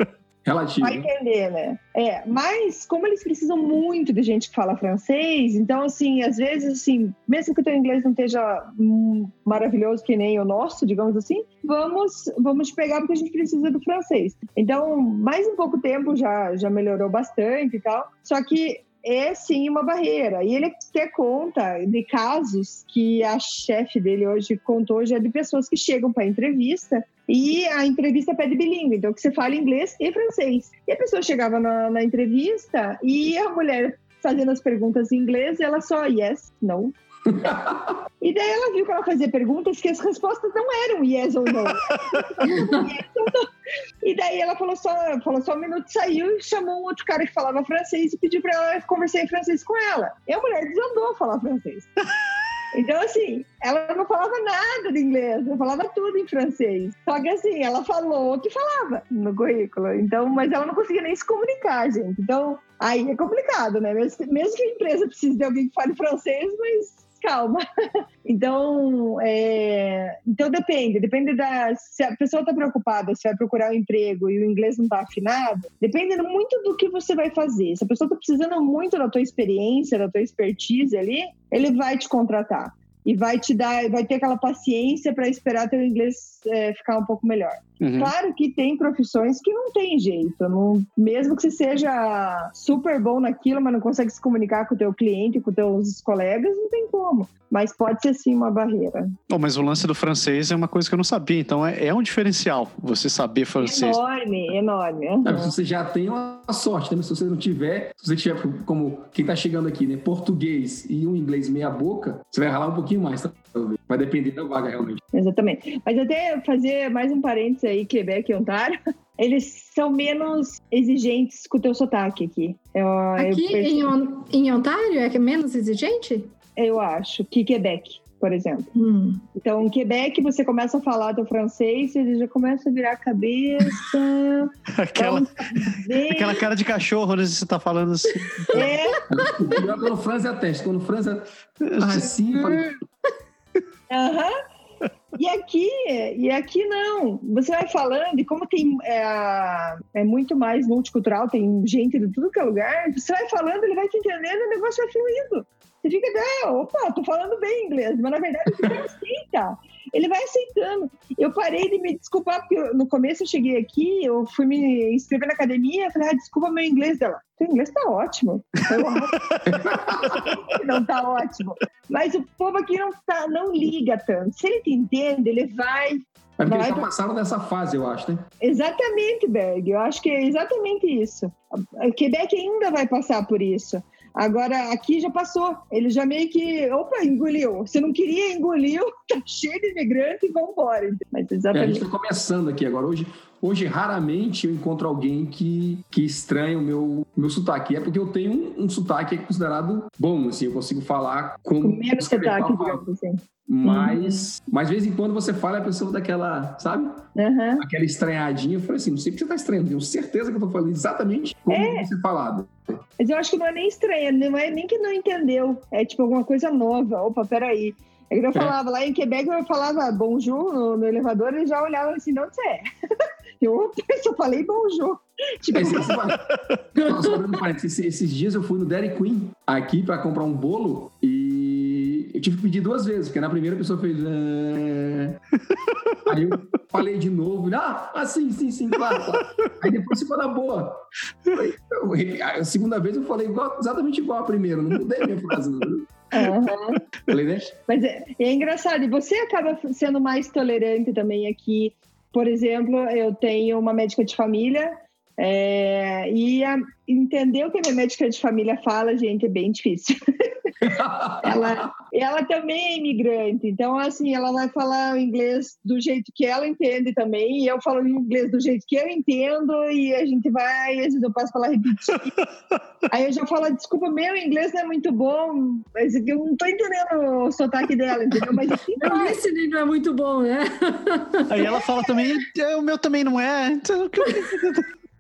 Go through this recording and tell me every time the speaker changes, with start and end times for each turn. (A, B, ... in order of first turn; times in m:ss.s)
0:00.4-0:01.1 A
0:00.8-0:36.9 B
0:37.3-0:37.8 A
0:38.2-0:43.5 B
0:44.0-0:51.9 B
0:52.7-1:07.6 B
1:08.2-1:39.1 B
1:27.8-1:28.1 C
1:39.3-1:44.0 C
1:43.6-1:45.6 B
1:45.2-1:55.0 A
1:55.1-2:03.9 B
2:03.2-2:06.3 D
2:06.6-2:08.7 B
2:08.8-2:09.2 D
2:09.4-2:16.4 B
2:14.7-2:18.7 C
2:18.5-2:19.0 B
2:19.1-2:22.7 A
2:21.6-2:22.6 C
2:23.9-2:24.3 B
2:25.2-2:49.2 B
2:49.4-2:50.4 A
2:50.1-2:56.9 B
2:56.4-2:58.2 A
2:58.4-3:11.8 B
3:11.5-3:22.8 A
3:21.6-3:24.3 B
3:23.5-3:27.1 A
3:27.2-3:27.6 B
3:27.6-3:32.8 A
3:31.5-3:31.9 B
3:33.0-3:42.7 B
3:43.4-3:46.0 B
3:45.5-3:46.2 A
3:46.8-3:55.2 A
3:46.8-3:47.2 D
3:56.1-4:06.3 A
4:06.1-4:06.8 B
4:07.1-4:07.5 A
4:07.7-4:19.9 B
4:20.6-4:21.7 A
4:21.2-4:32.2 B
4:32.9-4:39.2 B
4:38.8-4:41.5 D
4:41.3-4:44.7 C